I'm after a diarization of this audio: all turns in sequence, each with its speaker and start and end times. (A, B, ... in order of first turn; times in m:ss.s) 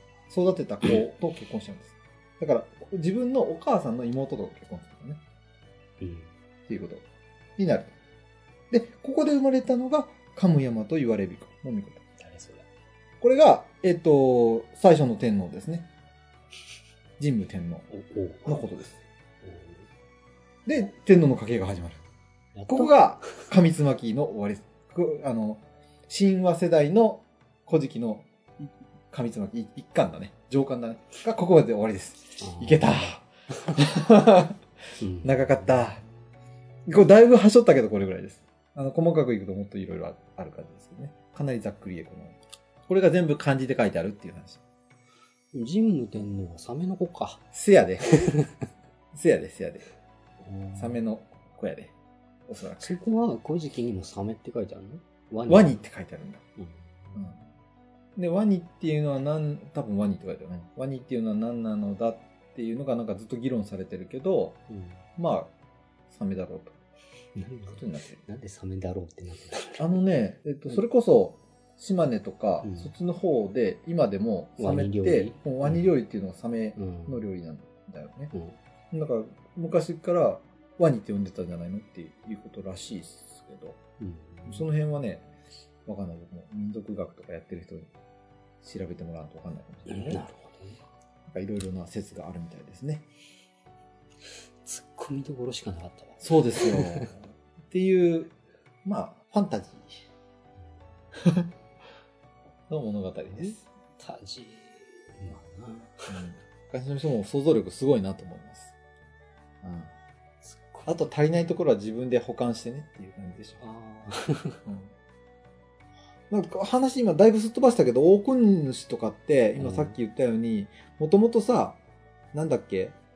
0:00.3-0:05.2 A
0:06.0-0:06.3 B
0:06.7-0:07.0 A
0:07.6-0:07.9 A
0:08.7-0:12.0 A
0:12.2-0:12.6 B
0:13.2-0:15.9 A
0:17.2-0:17.9 A
0:17.9-0:18.6 B
0:18.4-0:19.0 A
0:19.4-0:19.9 B
0:20.7-0:22.0 A
0:22.6-0:23.0 B
0:22.7-0:28.3 A
0:29.1-0:34.6 A
0:32.4-0:33.7 B
0:35.0-0:35.8 B
0:35.2-0:36.0 A
0:36.9-0:42.4 A
0:42.9-0:44.6 A
0:45.5-0:47.4 B
0:47.5-0:48.3 A
0:48.0-0:48.5 B
0:49.1-0:49.9 A
0:50.4-0:51.0 B
0:50.8-0:51.9 A
0:52.5-0:53.0 A
0:52.8-0:55.8 B
0:55.5-0:56.4 A
0:56.6-0:57.2 B
0:58.2-1:04.6 A
1:04.7-1:05.0 B
1:05.2-1:05.5 A
1:06.1-1:06.7 A
1:07.4-1:09.9 B
1:07.7-1:08.2 A
1:09.8-1:18.3 A
1:12.6-1:12.9 B
1:14.6-1:15.9 B
1:16.8-1:17.2 B
1:18.3-1:18.6 B
1:18.9-1:23.8 A
1:24.0-1:24.7 B
1:24.5-1:25.3 A
1:25.9-1:27.9 A
1:28.6-1:30.2 A
1:29.9-1:30.8 B
1:31.3-1:33.0 A
1:34.6-1:37.1 B
1:36.2-1:38.3 A
1:38.8-1:40.0 A
1:41.2-1:41.5 A
1:42.7-1:43.6 A
1:43.3-1:46.2 B
1:46.1-1:48.7 A
1:49.6-1:49.9 A
1:50.4-1:51.0 B
1:50.8-1:53.6 A
1:53.6-1:54.6 B
1:54.6-1:54.9 A
1:56.3-2:01.8 A
1:59.6-2:00.0 B
2:02.3-2:03.0 A